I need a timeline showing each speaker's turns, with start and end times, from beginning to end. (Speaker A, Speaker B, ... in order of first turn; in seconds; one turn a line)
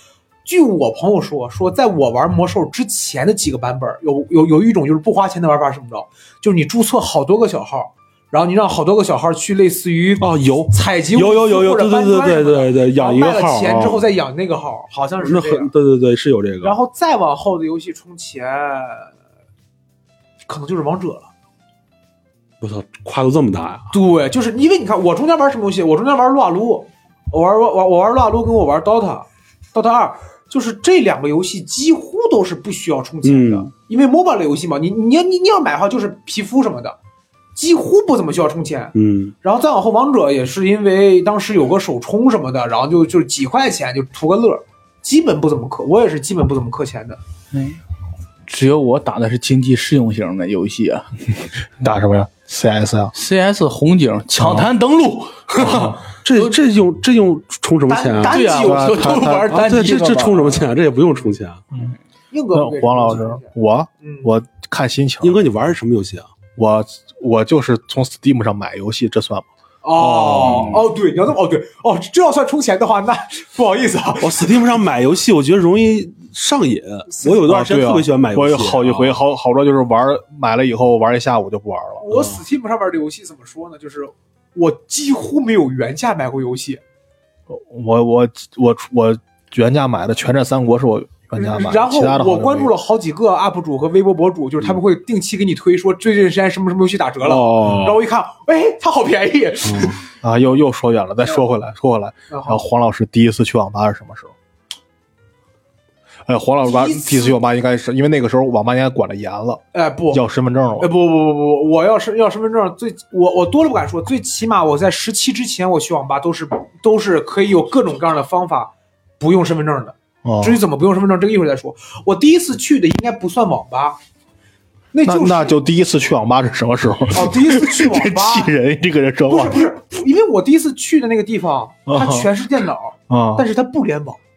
Speaker A: 0.4-15.7
Speaker B: 10.2-14.1
Speaker B: 15.2-16.8
Speaker A: 16.6-19.1
Speaker A: 20.4-21.3
Speaker B: 22.6-23.9
Speaker A: 23.9-37.0
Speaker B: 33.2-33.7
Speaker A: 37.5-47.2
Speaker B: 38.9-39.3
Speaker C: 47.5-47.8
Speaker C: 48.5-51.1
Speaker D: 51.8-53.1
Speaker C: 53.1-56.5
Speaker D: 54.3-54.7
Speaker D: 55.6-56.0
Speaker B: 56.2-58.6
Speaker A: 57.9-59.3
Speaker C: 58.2-60.6
Speaker D: 58.6-59.8
Speaker B: 59.5-61.6
Speaker A: 62.3-63.5
Speaker D: 62.5-65.4
Speaker A: 64.0-64.3
Speaker B: 65.2-66.3
Speaker D: 66.5-70.8
Speaker A: 69.8-74.5
Speaker C: 70.5-70.8
Speaker B: 74.2-79.2
Speaker A: 77.1-77.5
Speaker D: 77.5-82.1
Speaker A: 82.0-86.8
Speaker B: 82.1-82.4
Speaker D: 87.5-92.7
Speaker A: 91.3-100.0
Speaker B: 97.2-98.0
Speaker B: 99.6-100.0
Speaker D: 100.2-104.3
Speaker A: 102.3-102.6
Speaker D: 106.2-110.9
Speaker A: 106.6-107.4
Speaker A: 109.7-110.2
Speaker A: 110.8-124.0
Speaker D: 120.2-120.6
Speaker A: 124.9-125.5
Speaker D: 125.0-129.6
Speaker A: 127.1-128.5
Speaker A: 129.3-134.2
Speaker D: 131.9-132.3
Speaker D: 133.1-133.4